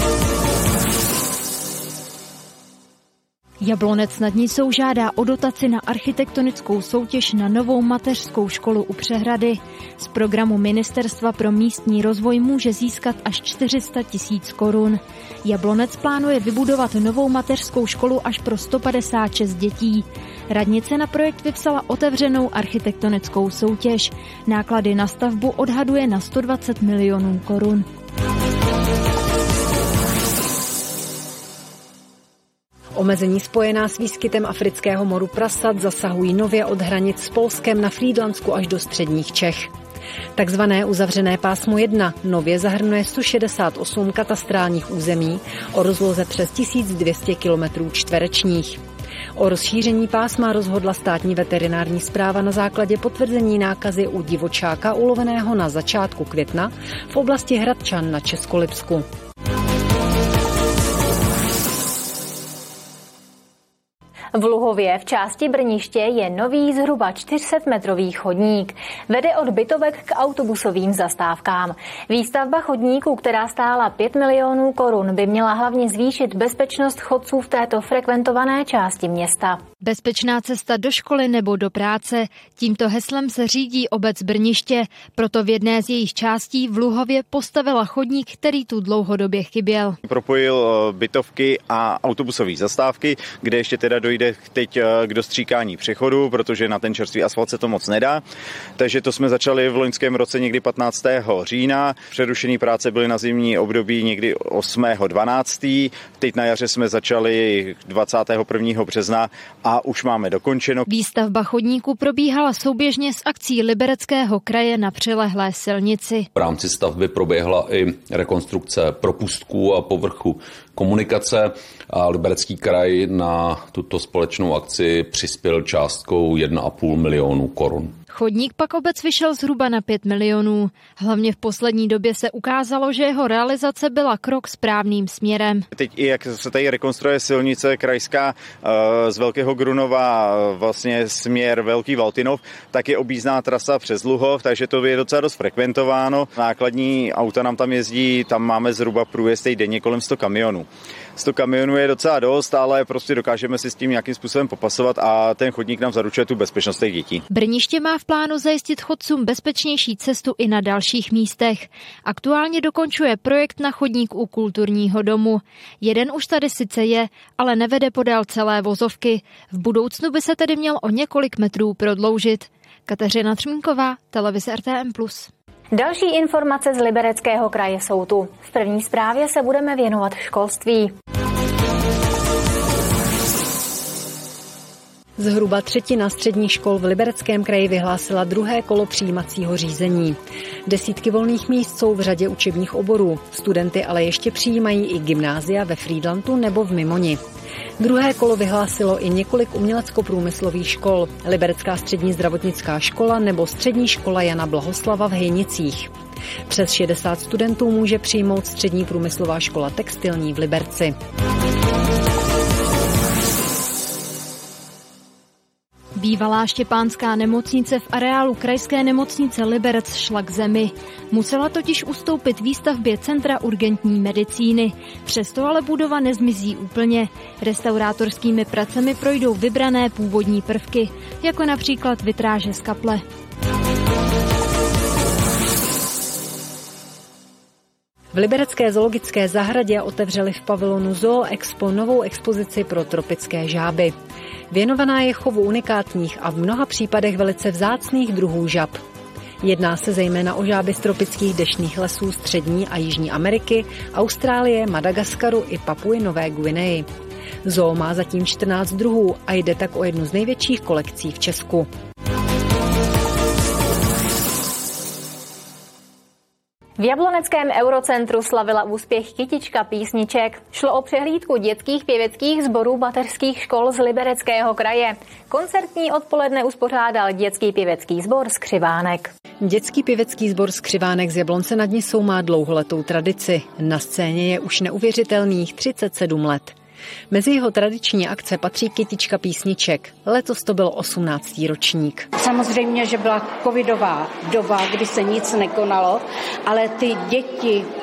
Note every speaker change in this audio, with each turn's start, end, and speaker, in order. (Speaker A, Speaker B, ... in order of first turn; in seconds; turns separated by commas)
Speaker A: 3.6-27.9, Speaker B: 33.0-39.7, Speaker B: 40.4-48.8, Speaker B: 49.4-59.0, Speaker C: 64.3-79.6, Speaker A: 79.8-90.0, Speaker D: 90.0-98.2, Speaker D: 98.8-110.8, Speaker A: 110.9-116.3, Speaker E: 116.3-127.9, Speaker A: 128.1-135.6, Speaker D: 135.7-157.2, Speaker A: 157.3-175.3, Speaker C: 175.7-180.9, Speaker B: 185.2-197.2, Speaker B: 197.8-205.9, Speaker B: 206.5-210.9, Speaker A: 215.9-233.0, Speaker B: 238.1-243.9, Speaker B: 244.5-248.8, Speaker B: 249.4-256.9, Speaker B: 257.4-261.7, Speaker C: 266.8-279.1, Speaker B: 279.4-286.5, Speaker B: 287.1-292.1, Speaker F: 292.2-297.7